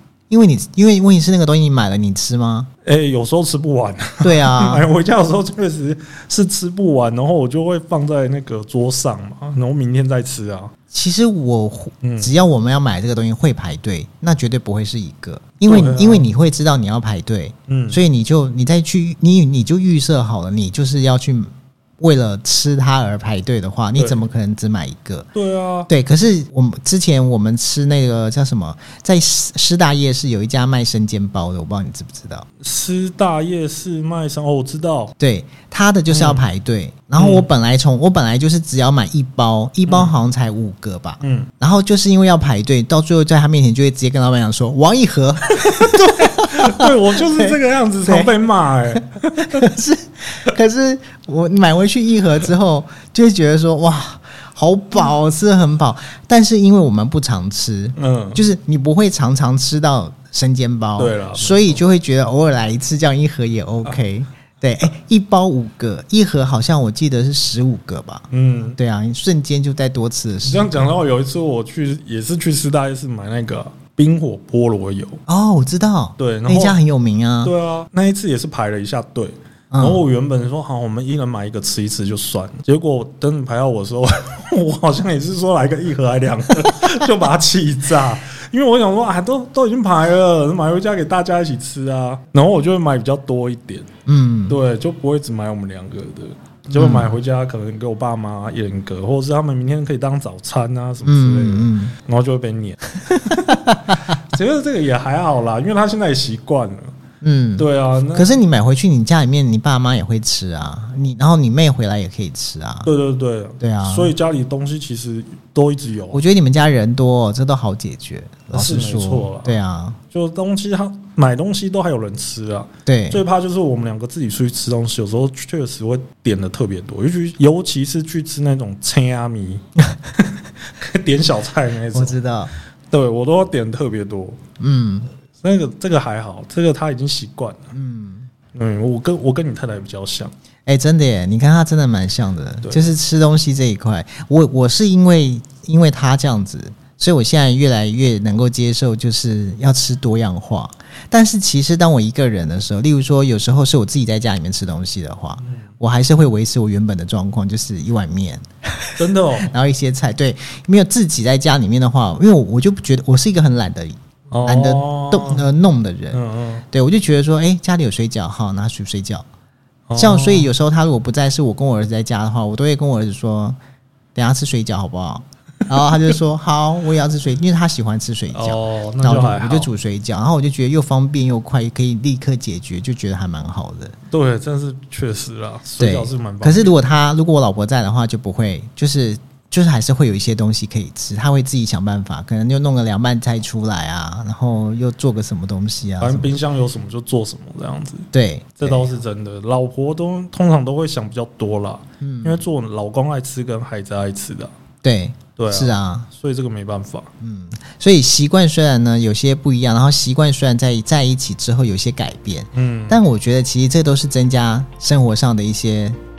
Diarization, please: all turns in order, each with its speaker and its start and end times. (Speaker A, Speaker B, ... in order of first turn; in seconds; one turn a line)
Speaker A: 0.3-2.7
Speaker B: 2.8-10.7
Speaker A: 4.2-4.8
Speaker A: 10.9-25.3
Speaker B: 12.0-12.3
Speaker B: 15.7-16.3
Speaker B: 17.7-18.0
Speaker B: 23.9-24.2
Speaker B: 25.3-25.9
Speaker A: 25.9-32.5
Speaker B: 32.6-35.1
Speaker A: 35.2-48.3
Speaker B: 36.1-36.4
Speaker B: 37.1-37.5
Speaker B: 39.9-40.1
Speaker B: 41.2-41.5
Speaker B: 45.6-49.7
Speaker A: 48.9-70.8
Speaker B: 58.0-58.5
Speaker B: 61.0-61.8
Speaker B: 68.3-68.8
Speaker B: 70.4-75.2
Speaker A: 75.3-77.5
Speaker B: 76.2-76.8
Speaker B: 77.4-93.9
Speaker A: 79.7-80.0
Speaker A: 94.0-94.6
Speaker B: 94.5-106.9
Speaker A: 96.7-97.1
Speaker A: 101.0-101.9
Speaker A: 103.1-104.2
Speaker A: 107.2-112.9
Speaker B: 107.6-108.3
Speaker B: 112.8-116.2
Speaker A: 113.6-114.1
Speaker A: 116.1-120.0
Speaker B: 118.5-119.5
Speaker B: 120.1-129.6
Speaker A: 122.8-123.2
Speaker B: 130.2-132.2
Speaker A: 131.9-132.5
Speaker B: 132.9-134.4
Speaker A: 134.6-135.1
Speaker B: 135.4-137.7
Speaker A: 137.7-138.3
Speaker B: 138.5-140.3
Speaker A: 140.7-169.2
Speaker B: 142.6-142.9
Speaker B: 158.9-159.5
Speaker B: 164.3-165.4
Speaker B: 166.1-166.6
Speaker B: 169.9-170.5
Speaker A: 170.0-173.6
Speaker A: 174.1-183.9
Speaker B: 178.3-179.7
Speaker B: 184.1-186.8
Speaker A: 185.8-196.3
Speaker B: 196.0-198.1
Speaker A: 198.1-198.9
Speaker B: 198.6-204.5
Speaker A: 202.0-202.4
Speaker A: 204.8-206.1
Speaker B: 205.4-207.1
Speaker A: 207.2-216.0
Speaker B: 212.5-213.0